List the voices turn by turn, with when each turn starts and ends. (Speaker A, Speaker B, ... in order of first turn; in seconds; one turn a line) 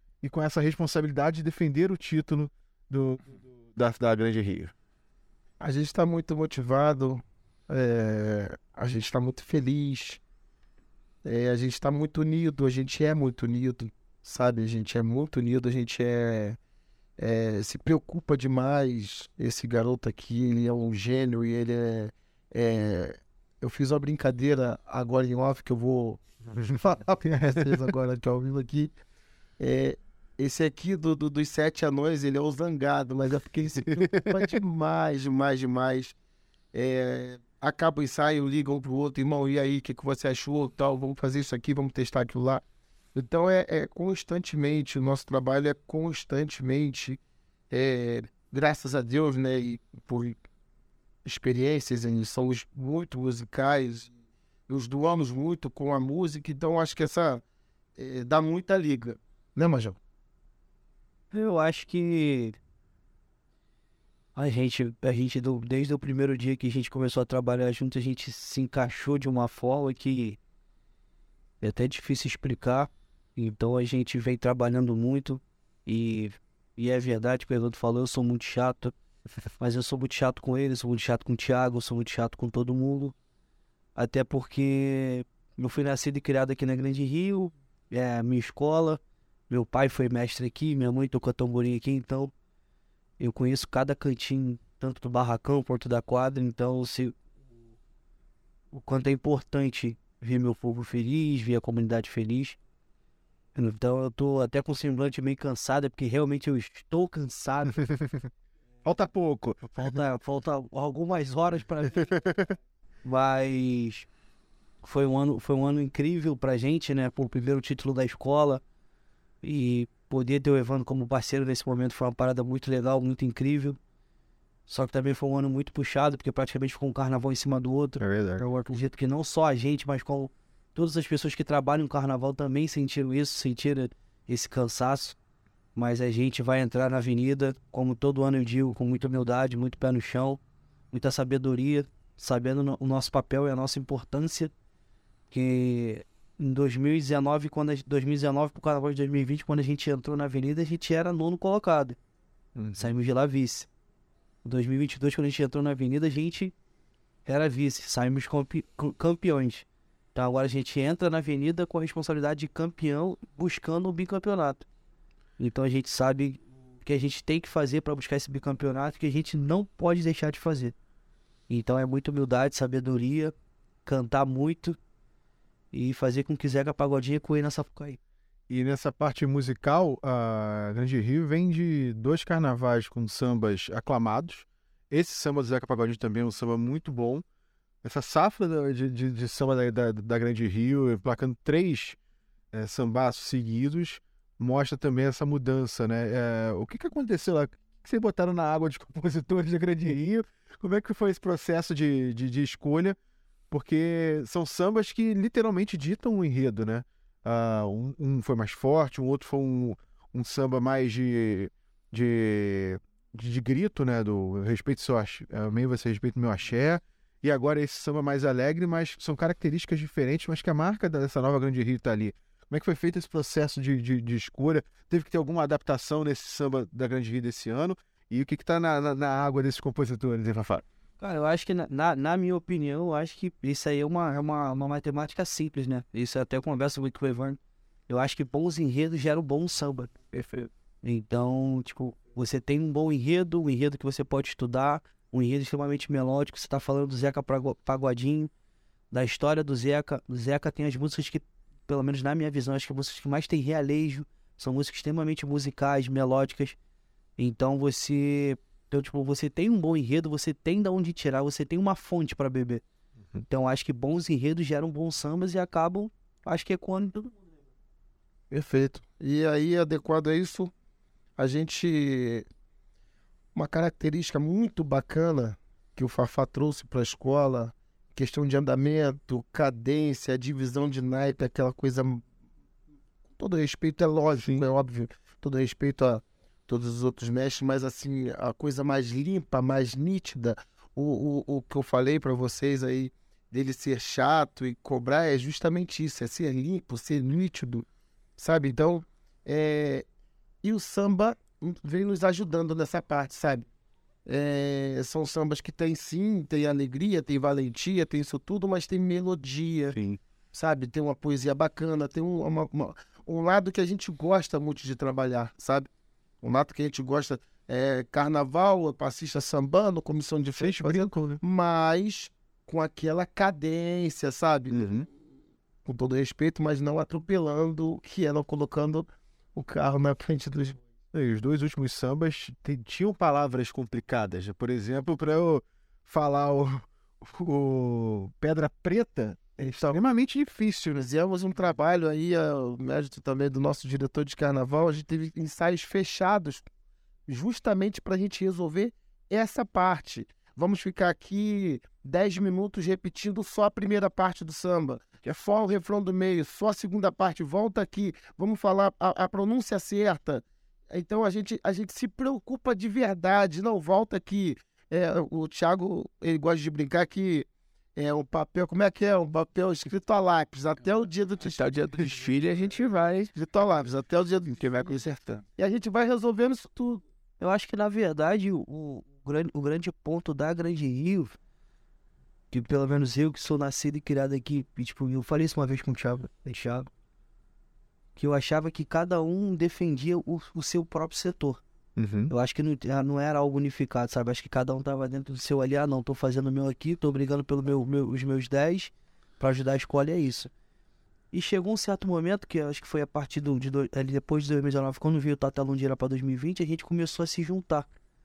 Speaker A: 0.2-4.7
Speaker B: 5.6-10.2
Speaker B: 11.2-16.6
Speaker B: 17.2-28.9
Speaker A: 27.5-27.8
Speaker B: 29.6-36.1
Speaker A: 33.9-34.6
Speaker B: 36.7-42.6
Speaker B: 43.1-47.2
Speaker B: 47.7-50.4
Speaker B: 51.2-54.1
Speaker B: 54.7-57.4
Speaker B: 58.0-60.0
Speaker C: 61.3-62.6
Speaker C: 64.3-70.4
Speaker C: 71.6-78.9
Speaker C: 79.6-83.1
Speaker C: 84.0-92.3
Speaker C: 93.2-97.2
Speaker C: 98.7-102.6
Speaker C: 103.5-107.8
Speaker A: 108.8-109.8
Speaker C: 109.7-112.2
Speaker C: 113.0-114.1
Speaker C: 114.8-118.6
Speaker C: 119.4-123.8
Speaker C: 124.7-135.2
Speaker A: 128.0-128.4
Speaker C: 135.8-144.5
Speaker C: 145.3-152.0
Speaker A: 152.6-152.9
Speaker C: 152.8-153.7
Speaker C: 154.4-156.5
Speaker C: 157.2-164.7
Speaker C: 165.4-170.8
Speaker C: 171.5-173.3
Speaker C: 173.8-174.8
Speaker C: 175.7-178.0
Speaker A: 178.5-187.2
Speaker A: 187.8-192.0
Speaker A: 192.5-203.0
Speaker A: 203.5-230.6
Speaker C: 231.0-240.1
Speaker C: 240.8-248.3
Speaker C: 248.9-256.6
Speaker C: 257.2-262.6
Speaker C: 263.3-267.2
Speaker B: 268.3-270.5
Speaker B: 271.2-272.2
Speaker B: 273.4-282.0
Speaker B: 283.2-297.7
Speaker B: 298.2-299.9
Speaker B: 300.4-303.5
Speaker B: 304.1-309.8
Speaker A: 309.7-310.0
Speaker B: 310.3-315.7
Speaker B: 316.2-324.8
Speaker A: 320.4-321.2
Speaker A: 324.5-324.9
Speaker B: 325.6-330.6
Speaker A: 330.9-340.6
Speaker B: 339.4-339.8
Speaker B: 340.5-346.5
Speaker B: 347.1-371.4
Speaker D: 371.2-373.1
Speaker B: 373.1-374.8
Speaker D: 374.4-375.2
Speaker B: 375.4-376.8
Speaker C: 377.2-381.2
Speaker C: 382.3-386.7
Speaker C: 388.0-391.4
Speaker A: 391.8-392.1
Speaker C: 392.1-400.3
Speaker C: 401.1-407.7